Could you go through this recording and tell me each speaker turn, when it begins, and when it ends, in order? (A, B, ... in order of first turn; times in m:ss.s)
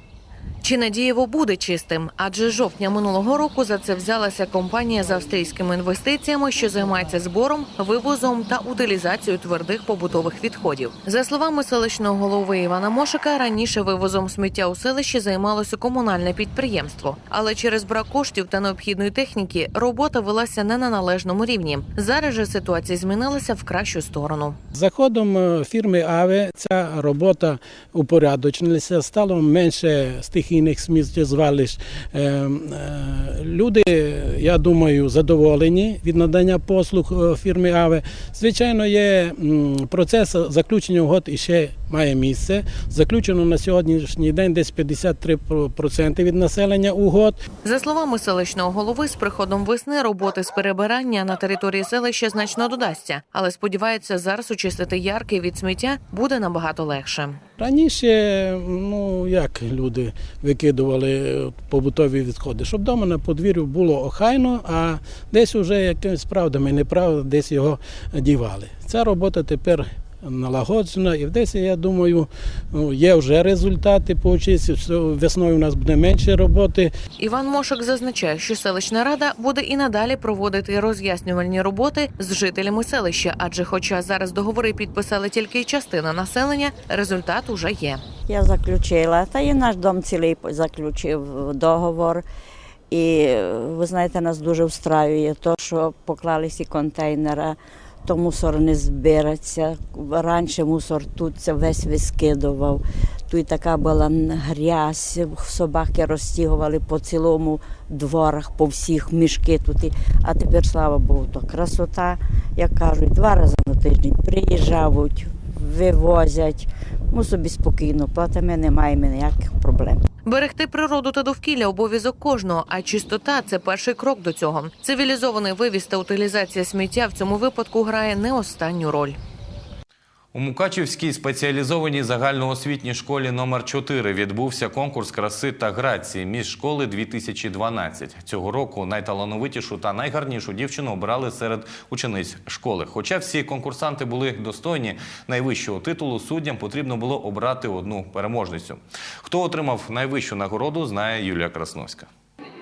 0:00.6-0:24.6 A
0:24.7-0:47.4 B
0:47.6-0:57.4 A
0:57.6-1:16.9 B
1:17.2-1:28.0 A
1:28.3-1:32.2 C
1:32.9-2:00.0 C
2:00.2-2:09.2 A
2:10.3-2:32.1 D